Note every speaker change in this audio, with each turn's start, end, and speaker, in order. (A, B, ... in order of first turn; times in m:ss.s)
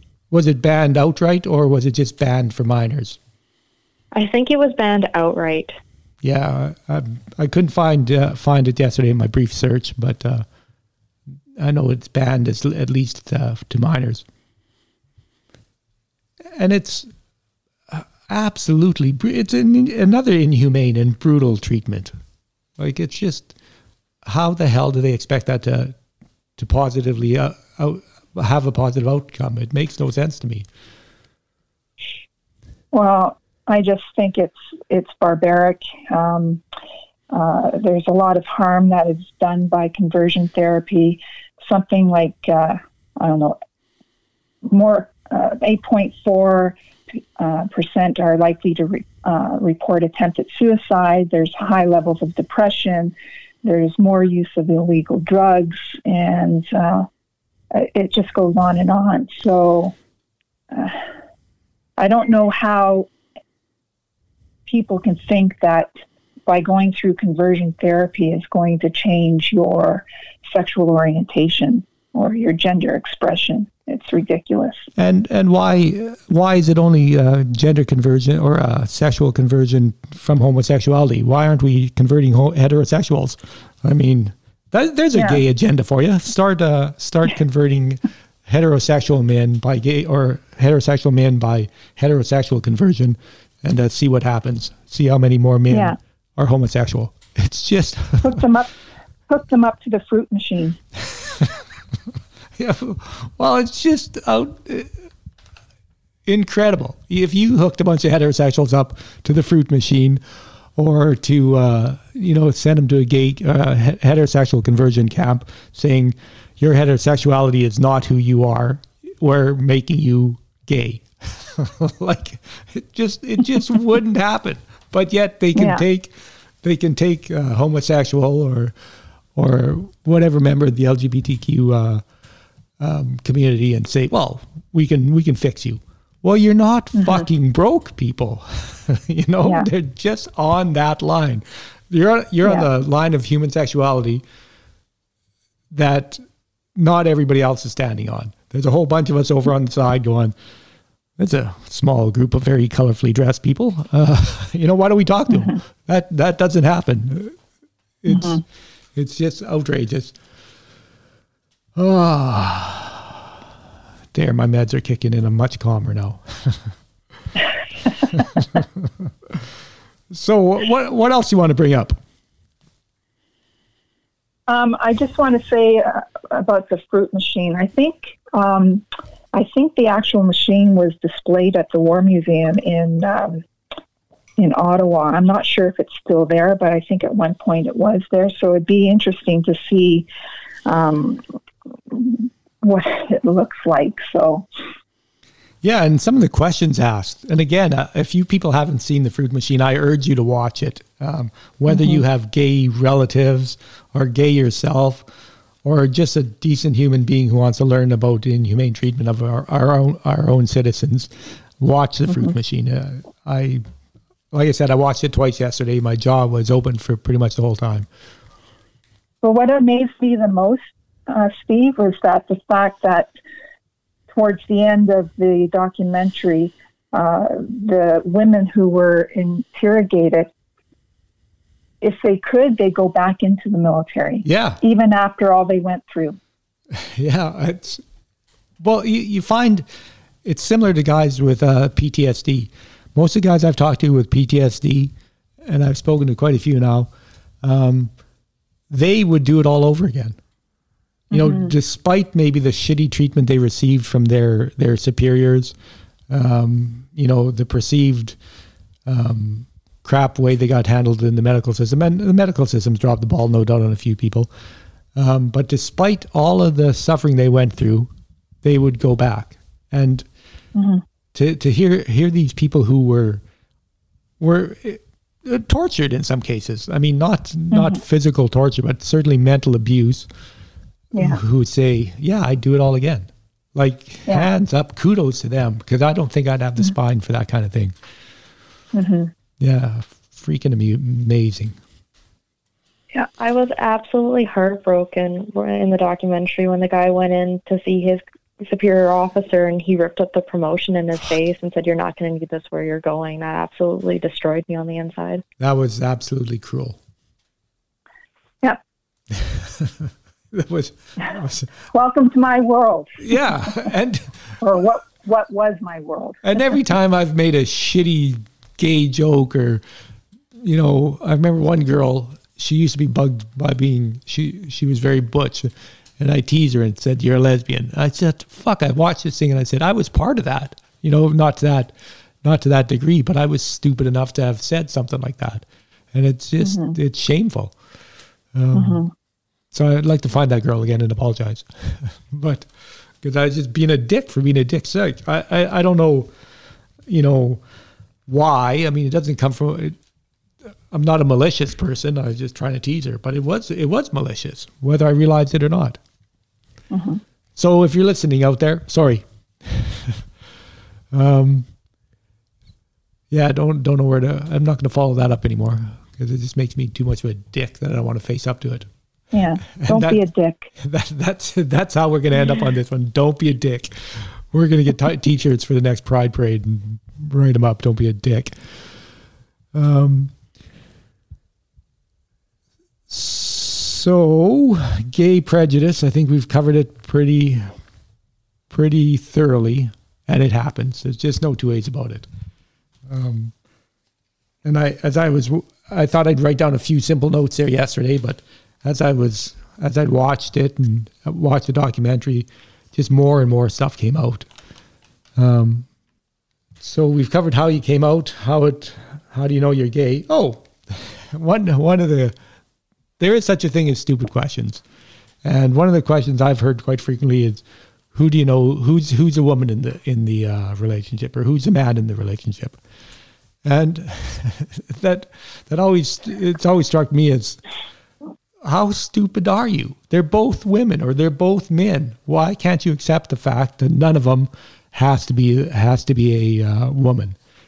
0:00.3-0:03.2 A
0:04.1-0:05.7 B
0:06.2-0:10.4 A
0:11.6-0:14.2 A
0:16.6-0:17.1 A
0:17.9-0:22.1 A
0:22.8-0:23.5 A
0:24.2-0:25.9 A
0:26.6-0:30.7 A
0:32.9-0:36.6 C
0:37.3-0:43.6 C
0:44.6-0:57.1 C
0:57.7-0:59.9 C
1:00.7-1:01.1 C
1:02.0-1:03.1 C
1:04.7-1:05.9 C
1:06.4-1:14.9 C
1:15.0-1:38.4 A
1:35.7-1:36.0 C
1:38.2-1:38.7 C
1:39.3-1:40.8 C
1:42.6-1:44.9 A
1:46.2-1:50.2 A
1:50.8-2:06.1 A
2:05.5-2:05.8 C
2:06.6-2:08.7 A
2:09.4-2:12.0 A
2:12.8-2:24.2 A
2:17.0-2:17.2 C
2:25.7-2:26.2 A
2:26.8-2:30.3 A
2:31.2-2:37.4 A
2:38.0-2:40.1 A
2:38.1-2:38.4 C
2:41.8-2:43.2 A
2:44.1-2:46.7 A
2:48.1-2:48.6 A
2:50.1-2:52.0 A
2:54.5-3:03.4 C
3:04.4-3:10.1 C
3:10.6-3:11.2 C
3:11.9-3:14.5 C
3:15.6-3:25.0 A
3:21.7-3:22.0 C
3:25.6-3:33.6 A
3:34.3-3:37.9 A
3:39.2-3:43.1 C
3:44.1-3:50.3 C
3:51.8-3:56.2 C
3:54.2-3:54.6 A
3:56.7-3:57.8 A
3:58.6-3:59.6 A
4:00.2-4:04.9 A
4:05.4-4:06.9 A
4:07.4-4:07.9 A
4:08.7-4:10.2 A
4:11.1-4:11.5 C
4:11.1-4:15.5 A
4:16.1-4:18.2 A
4:18.8-4:24.3 A
4:24.9-4:27.9 A
4:28.4-4:30.0 A
4:30.5-4:30.8 C
4:31.1-4:33.2 A
4:34.2-4:40.1 A
4:37.5-4:37.8 C
4:40.9-4:41.2 C
4:41.0-4:47.7 A
4:48.7-4:49.1 C
4:49.4-4:51.6 A
4:53.2-5:05.2 B
5:05.4-5:06.8 A
5:09.1-5:11.5 A
5:11.7-5:13.0 C
5:13.0-5:14.1 A
5:14.4-5:16.2 C
5:16.2-5:19.6 A
5:20.4-5:31.7 A
5:32.2-5:37.5 A
5:36.4-5:36.7 C
5:38.3-5:38.8 A
5:38.5-5:38.9 C
5:39.5-5:42.5 A
5:43.0-5:46.1 A
5:46.9-5:47.4 A
5:48.1-5:49.8 A
5:50.7-5:55.8 A
5:56.7-5:57.0 C
5:57.4-6:00.0 A
6:00.9-6:01.5 A
6:03.1-6:08.7 A
6:09.1-6:10.5 C
6:09.4-6:10.0 A
6:10.6-6:18.3 A
6:19.5-6:20.1 A
6:22.9-6:27.5 A
6:28.5-6:32.1 A
6:32.9-6:33.3 A
6:34.4-6:44.3 A
6:45.2-6:45.6 A
6:46.6-6:52.1 A
6:53.0-6:54.6 A
6:55.2-6:57.4 A
6:57.9-7:02.6 A
7:03.4-7:07.4 A
7:08.4-7:17.2 A